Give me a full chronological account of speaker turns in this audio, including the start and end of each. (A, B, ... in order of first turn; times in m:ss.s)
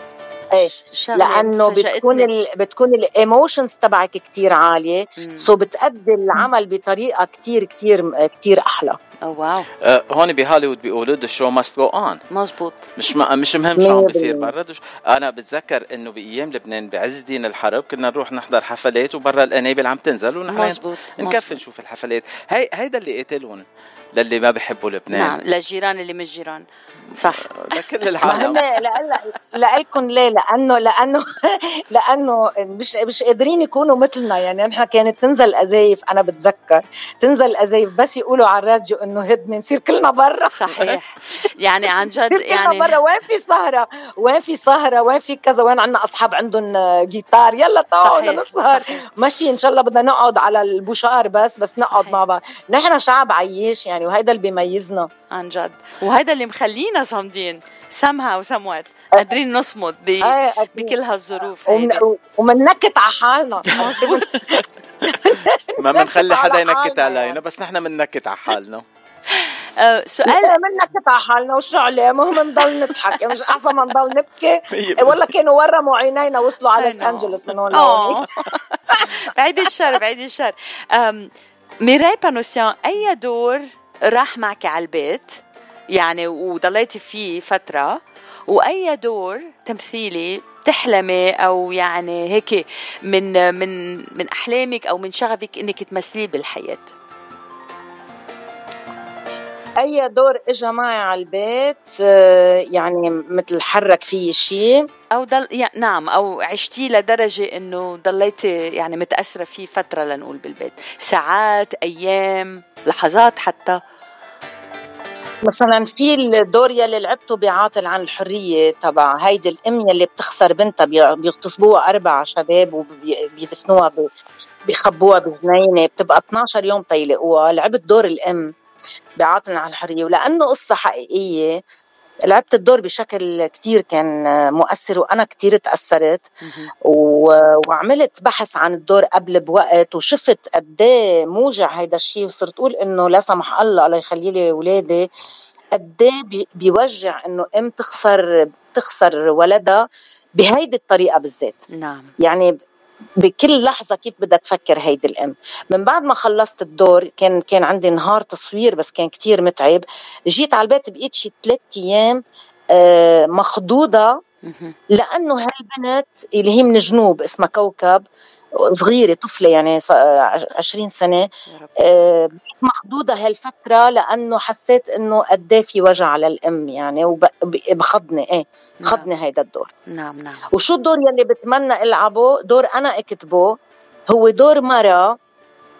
0:00.5-0:09.0 A
0:00.6-0:02.3 B
0:05.2-0:05.5 B
0:09.2-0:09.7 B
0:09.8-0:12.2 C
0:12.3-0:12.8 B
0:13.0-0:25.3 C
0:13.8-0:14.5 A
0:20.5-0:21.6 B
0:25.1-0:28.5 B
0:27.3-0:28.6 C
0:28.2-0:40.9 A
0:40.5-0:43.0 B
0:42.0-0:55.1 A
0:48.0-0:49.0 B
0:51.8-0:52.2 B
0:55.3-1:02.0 B
1:00.2-1:00.9 A
1:01.6-1:07.4 A
1:03.7-1:04.3 B
1:03.8-1:04.6 C
1:05.1-1:08.8 C
1:09.3-1:10.6 B
1:10.2-1:18.2 A
1:14.7-1:15.3 C
1:16.8-1:21.3 B
1:21.8-1:25.4 B
1:25.9-1:36.9 B
1:39.8-1:44.8 A
1:45.1-1:53.8 B
1:55.4-2:04.1 A
2:04.6-2:08.5 A
2:09.2-2:11.6 A
2:12.3-2:16.3 A
2:16.4-2:16.7 B
2:16.8-2:25.1 A
2:25.7-2:29.8 A
2:30.4-2:31.6 A
2:31.7-2:32.1 B
2:32.2-2:32.5 A
2:33.2-2:44.2 A
2:44.4-2:44.8 B
2:44.9-2:48.0 A
2:48.6-2:59.7 A
2:51.5-2:51.8 B
2:58.8-2:59.1 B
2:59.9-3:00.5 B
3:00.5-3:03.5 A
3:04.1-3:05.2 A